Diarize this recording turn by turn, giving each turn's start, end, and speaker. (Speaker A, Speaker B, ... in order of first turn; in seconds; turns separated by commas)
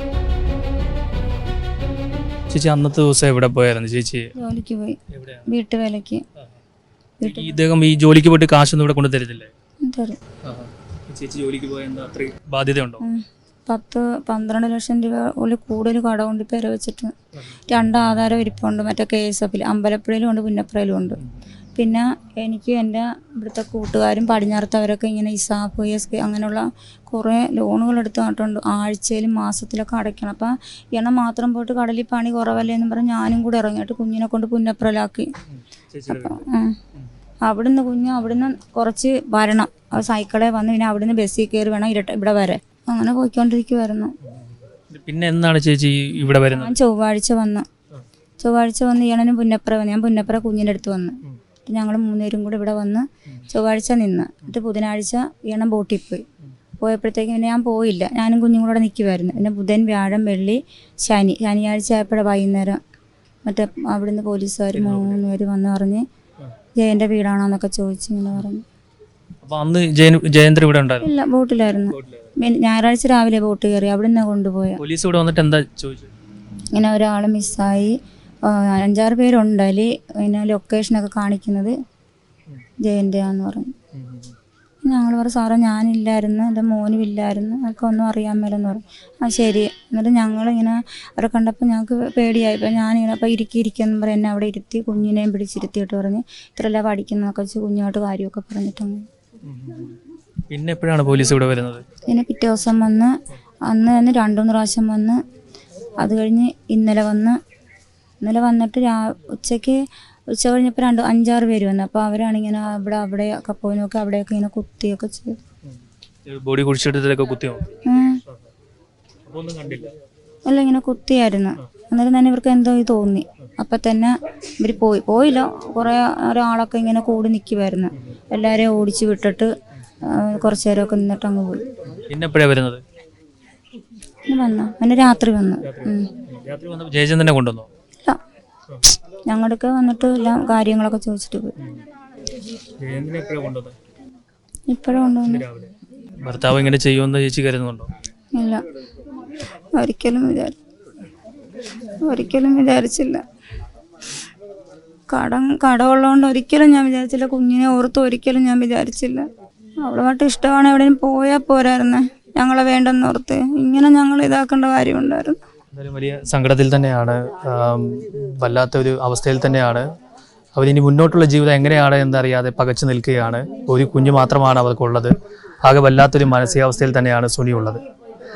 Speaker A: 2.5-4.3, Speaker B: 4.3-6.2, Speaker A: 5.1-5.5, Speaker B: 7.2-7.5, Speaker A: 7.2-9.5, Speaker B: 9.8-10.2, Speaker A: 10.4-13.0, Speaker B: 13.0-17.1, Speaker B: 17.6-21.2, Speaker B: 21.8-35.3, Speaker A: 35.5-36.4, Speaker B: 36.1-36.8, Speaker B: 37.4-44.1, Speaker A: 44.3-46.8, Speaker B: 46.5-47.6, Speaker B: 48.4-56.2, Speaker B: 56.8-62.8, Speaker B: 63.5-66.0, Speaker A: 64.7-65.2, Speaker B: 66.8-68.6, Speaker A: 69.4-71.1, Speaker B: 71.0-74.8, Speaker A: 72.0-72.3, Speaker A: 74.8-76.1, Speaker B: 76.7-81.7, Speaker B: 82.8-83.7, Speaker A: 83.9-84.3, Speaker B: 84.8-99.1, Speaker A: 99.4-100.0, Speaker A: 100.5-101.8, Speaker B: 102.0-105.2, Speaker B: 106.0-107.4, Speaker B: 108.2-115.4, Speaker A: 116.2-117.7, Speaker B: 117.8-118.2, Speaker A: 119.3-119.9, Speaker B: 120.5-129.5, Speaker B: 130.0-131.6, Speaker A: 131.9-132.8, Speaker B: 134.3-136.1, Speaker A: 135.6-137.7, Speaker B: 139.3-141.5, Speaker A: 142.8-143.8, Speaker B: 144.7-145.4, Speaker A: 145.3-147.9, Speaker B: 148.3-148.6, Speaker B: 149.7-150.6, Speaker B: 152.0-153.2, Speaker B: 155.1-159.3, Speaker B: 159.8-165.4, Speaker A: 165.7-169.8, Speaker A: 170.5-177.8